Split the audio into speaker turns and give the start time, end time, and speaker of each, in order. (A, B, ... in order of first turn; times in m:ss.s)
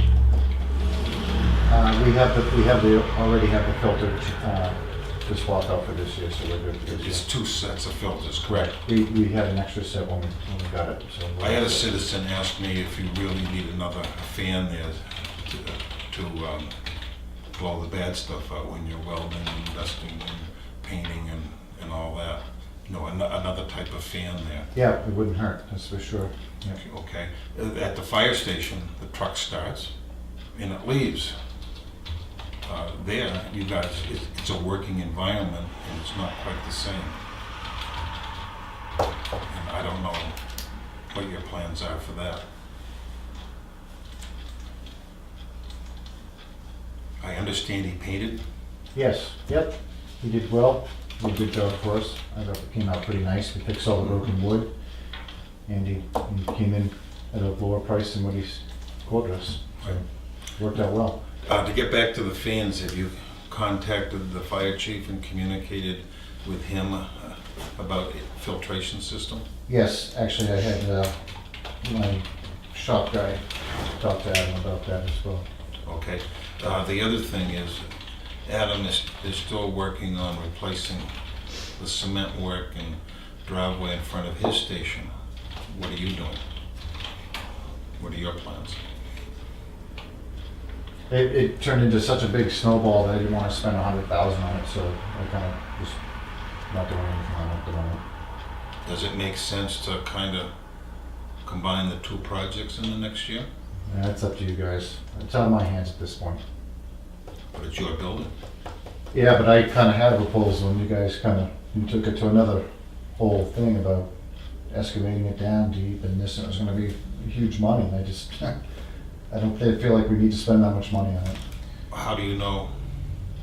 0:01.7-0:07.3 A
0:06.9-0:08.8 B
0:08.4-0:11.9 A
0:11.4-0:16.8 B
0:17.5-0:24.7 B
0:24.7-0:26.8 A
0:26.6-0:29.9 B
0:30.5-0:31.4 B
0:32.6-0:37.2 B
0:39.5-0:40.4 B
0:41.1-0:42.4 B
0:47.2-0:48.4 B
0:48.9-0:54.7 A
0:55.7-1:00.0 A
1:00.6-1:01.2 A
1:01.4-1:09.4 B
1:09.7-1:11.2 A
1:11.8-1:15.4 A
1:15.8-1:17.9 B
1:18.4-1:21.1 B
1:21.8-1:25.1 B
1:25.7-1:26.4 B
1:28.0-1:28.8 B
1:31.1-1:36.0 A
1:36.7-1:38.0 A
1:38.8-1:40.5 B
1:41.4-1:43.5 B
1:43.9-1:46.4 A
1:47.5-1:48.3 B
1:49.1-1:52.6 A
1:53.2-1:54.1 A
1:54.7-1:58.6 A
1:59.3-2:01.4 A
2:01.9-2:02.7 B